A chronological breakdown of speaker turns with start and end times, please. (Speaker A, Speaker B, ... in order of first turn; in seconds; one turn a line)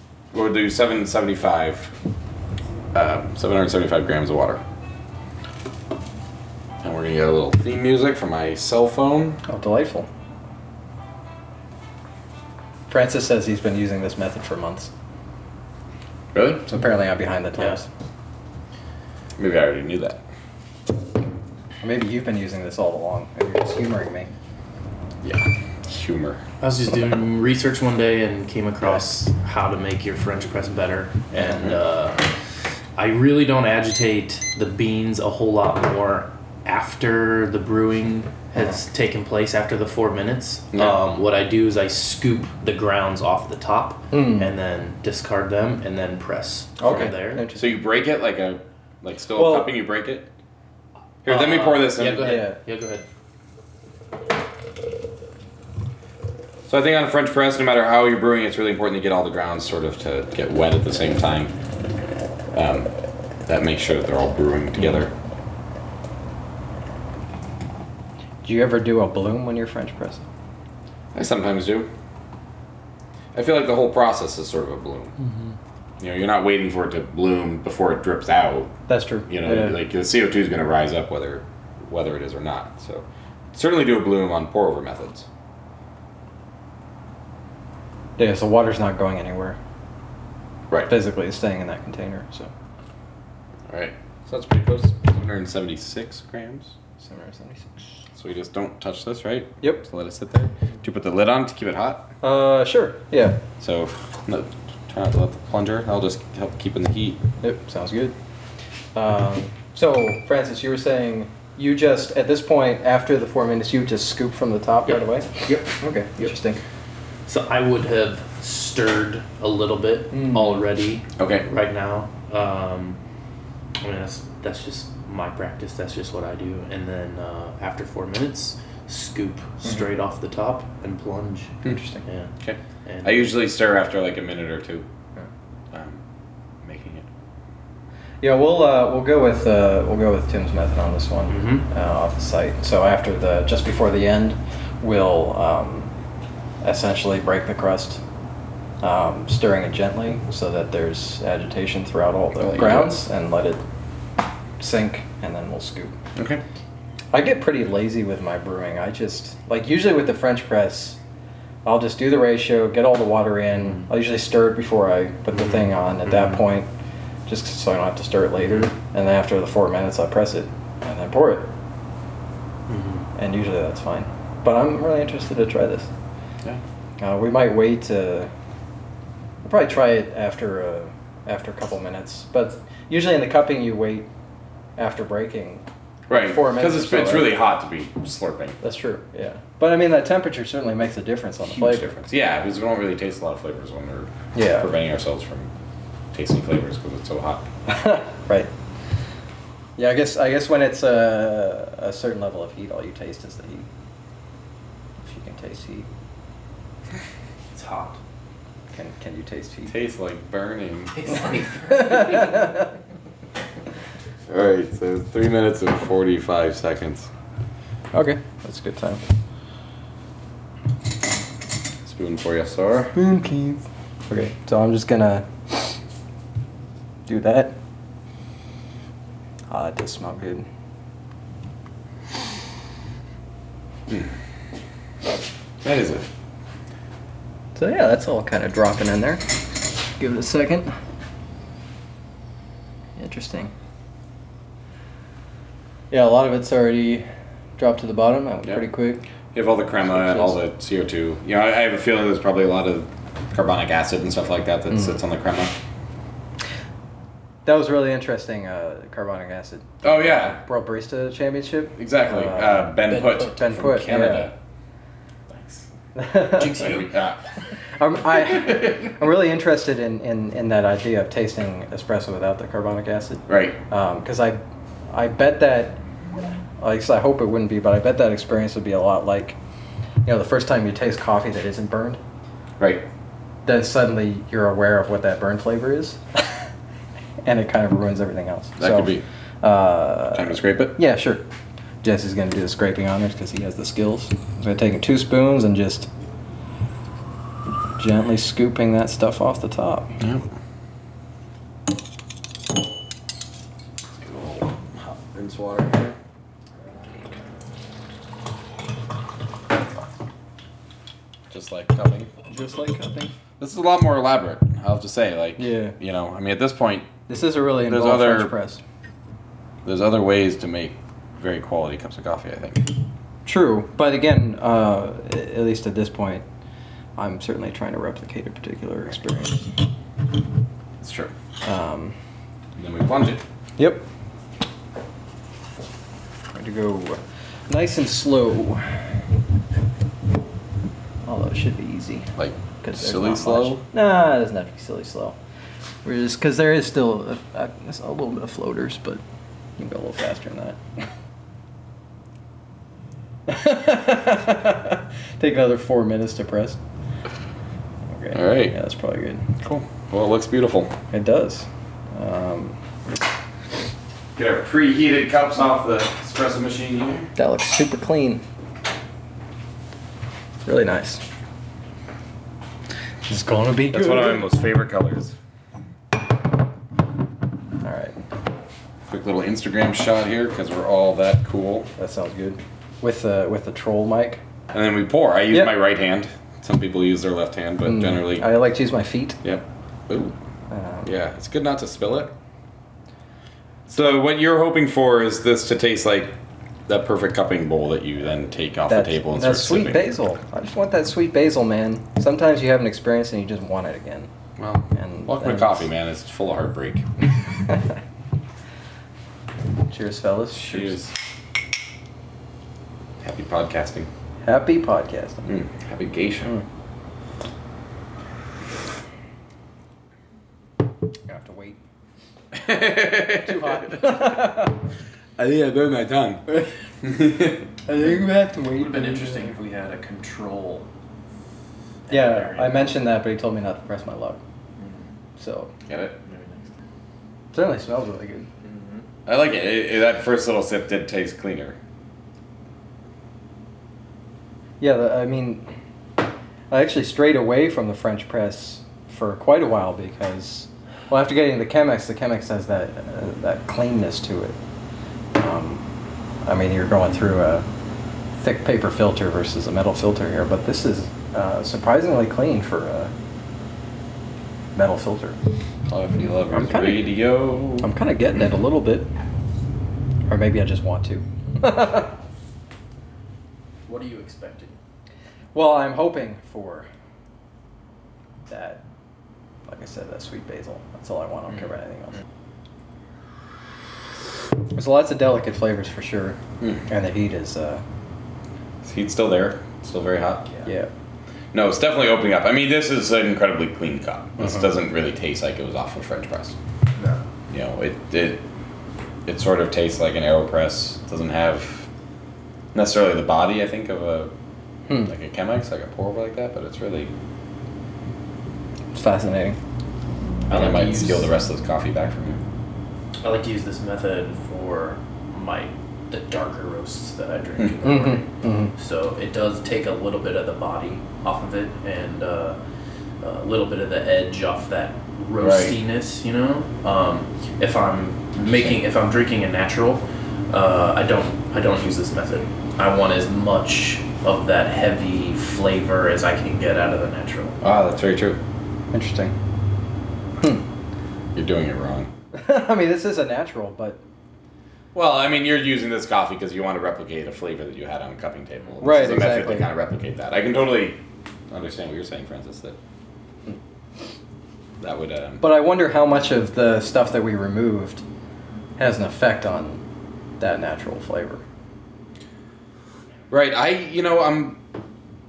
Speaker A: 0.3-1.9
Speaker A: 2.9-4.6
Speaker A: 6.8-9.4
Speaker B: 9.4-10.1
Speaker B: 12.9-14.9
Speaker A: 16.3-16.6
Speaker B: 16.6-17.9
Speaker A: 19.4-20.2
Speaker B: 21.8-24.3
Speaker A: 25.2-26.4
Speaker C: 26.6-32.3
Speaker A: 31.4-31.8
Speaker C: 33.0-47.5
Speaker B: 38.5-38.8
Speaker B: 44.1-44.5
Speaker B: 46.8-47.7
Speaker A: 46.9-50.3
Speaker B: 49.3-49.8
Speaker A: 51.2-52.4
Speaker C: 51.2-53.0
Speaker B: 52.2-52.6
Speaker A: 56.7-61.5
Speaker A: 62.5-62.9
Speaker A: 63.5-65.1
Speaker B: 68.4-70.3
Speaker A: 71.1-71.9
Speaker A: 73.3-75.1
Speaker A: 76.0-78.8
Speaker B: 78.9-79.8
Speaker A: 79.3-85.3
Speaker B: 88.2-89.6
Speaker B: 90.9-92.5
Speaker A: 93.7-96.8
Speaker B: 97.0-97.8
Speaker A: 98.1-102.1
Speaker B: 102.2-103.4
Speaker A: 103.6-107.2
Speaker B: 107.4-108.1
Speaker B: 108.9-116.6
Speaker C: 115.4-116.4
Speaker C: 117.2-123.0
Speaker B: 120.1-120.5
Speaker A: 121.2-121.5
Speaker C: 123.8-132.3
Speaker B: 131.6-132.0
Speaker A: 132.4-134.9
Speaker C: 132.8-133.3
Speaker A: 135.7-136.0
Speaker A: 136.6-137.1
Speaker B: 138.2-145.9
Speaker C: 141.3-141.7
Speaker B: 146.6-148.0
Speaker B: 148.8-153.6
Speaker A: 152.4-153.0
Speaker B: 154.6-155.9
Speaker A: 156.2-156.4
Speaker B: 157.1-161.0
Speaker B: 161.6-166.7
Speaker C: 166.1-166.3
Speaker B: 167.3-171.5
Speaker C: 172.7-173.0
Speaker B: 173.1-175.9
Speaker B: 177.0-178.3
Speaker B: 179.4-184.1
Speaker B: 184.8-187.3
Speaker A: 186.1-188.6
Speaker B: 188.6-192.0
Speaker A: 191.5-195.5
Speaker B: 194.3-194.7
Speaker A: 196.1-197.5
Speaker B: 197.7-198.5
Speaker B: 199.8-203.7
Speaker B: 205.0-205.9
Speaker C: 207.5-208.0
Speaker B: 208.7-209.7
Speaker A: 209.7-211.2
Speaker C: 210.9-212.5
Speaker B: 211.7-212.7
Speaker A: 214.3-217.1
Speaker B: 217.9-219.0
Speaker A: 221.8-222.9
Speaker B: 222.9-225.8
Speaker B: 227.1-227.5
Speaker B: 229.5-230.4
Speaker A: 235.6-236.1
Speaker B: 237.5-239.2
Speaker B: 239.9-240.7
Speaker B: 243.0-243.5
Speaker B: 245.9-247.1
Speaker B: 247.6-249.0
Speaker A: 249.3-255.5
Speaker B: 249.8-250.3
Speaker B: 257.4-264.3
Speaker A: 259.8-260.4
Speaker A: 261.8-264.3
Speaker C: 262.9-263.4
Speaker A: 265.3-265.6
Speaker B: 265.9-266.8
Speaker C: 266.3-266.9
Speaker A: 266.6-267.2
Speaker B: 267.8-275.8
Speaker A: 273.3-273.6
Speaker B: 276.6-279.4
Speaker B: 280.0-282.0
Speaker A: 282.6-282.9
Speaker B: 283.4-286.3
Speaker B: 287.2-291.2
Speaker A: 288.6-289.0
Speaker A: 290.1-290.8
Speaker B: 291.8-295.9
Speaker B: 297.8-300.0
Speaker A: 300.0-300.2
Speaker A: 304.0-306.0
Speaker A: 311.3-312.1
Speaker B: 312.3-313.1
Speaker A: 313.4-316.9
Speaker B: 315.4-315.8
Speaker B: 317.1-318.6
Speaker A: 317.6-318.3
Speaker A: 319.6-322.7
Speaker B: 323.2-326.2
Speaker B: 327.0-329.5
Speaker A: 330.8-331.1
Speaker B: 331.4-331.9
Speaker A: 332.6-333.2
Speaker B: 333.6-333.8
Speaker B: 336.3-338.8
Speaker B: 341.0-345.2
Speaker A: 342.1-343.6
Speaker B: 345.8-349.0
Speaker B: 349.6-350.6
Speaker B: 353.3-356.6
Speaker B: 357.9-359.3
Speaker A: 358.1-358.5
Speaker A: 359.4-360.7
Speaker B: 360.9-362.6
Speaker A: 364.1-367.1
Speaker B: 367.1-368.2
Speaker B: 370.4-371.0
Speaker B: 373.1-374.3
Speaker A: 373.7-375.1
Speaker B: 377.6-378.0
Speaker A: 378.9-381.7
Speaker B: 381.8-384.2
Speaker A: 384.5-388.2
Speaker B: 387.6-389.2
Speaker A: 389.2-390.1
Speaker B: 390.5-390.9
Speaker A: 390.8-392.1
Speaker A: 393.7-396.1
Speaker A: 396.7-399.8
Speaker B: 398.7-404.1
Speaker A: 404.4-406.8
Speaker B: 404.7-405.6
Speaker B: 409.7-410.8
Speaker A: 410.3-410.9
Speaker A: 413.0-413.9
Speaker B: 414.2-415.3
Speaker A: 415.3-416.3
Speaker B: 421.1-421.6
Speaker A: 422.3-423.9
Speaker B: 423.1-424.5
Speaker A: 425.2-426.2
Speaker A: 426.8-427.5
Speaker B: 427.6-429.3
Speaker C: 428.5-430.6
Speaker C: 431.9-432.8
Speaker B: 431.9-434.2
Speaker C: 434.6-434.9
Speaker B: 435.2-435.5
Speaker A: 435.7-436.0
Speaker C: 436.0-436.5
Speaker B: 437.3-438.3
Speaker C: 438.4-438.9
Speaker A: 439.1-441.6
Speaker B: 444.6-445.5
Speaker B: 446.5-454.4
Speaker B: 455.1-455.6
Speaker B: 456.2-457.4
Speaker B: 458.1-462.9
Speaker B: 464.5-465.2
Speaker A: 465.7-467.7
Speaker B: 466.3-466.9
Speaker B: 467.6-468.9
Speaker B: 470.1-471.9
Speaker C: 473.6-474.6
Speaker B: 475.3-476.7
Speaker B: 478.3-478.6
Speaker B: 479.5-481.9
Speaker B: 484.5-487.6
Speaker A: 488.6-490.3
Speaker B: 490.4-490.7
Speaker A: 491.3-496.4
Speaker A: 497.3-498.2
Speaker A: 499.1-501.7
Speaker A: 502.5-504.1
Speaker A: 504.8-506.9
Speaker B: 508.7-509.4
Speaker C: 510.3-511.1
Speaker A: 510.3-512.2
Speaker C: 513.0-522.4
Speaker B: 517.6-518.5
Speaker C: 523.0-537.4
Speaker A: 525.2-525.5
Speaker A: 528.2-528.6
Speaker A: 537.4-538.2
Speaker B: 538.7-539.1
Speaker A: 541.1-541.9
Speaker B: 542.1-543.8
Speaker A: 544.7-552.6
Speaker B: 548.6-549.5
Speaker A: 554.6-555.2
Speaker B: 555.2-557.8
Speaker B: 558.6-559.6
Speaker B: 560.2-561.2
Speaker A: 563.1-564.4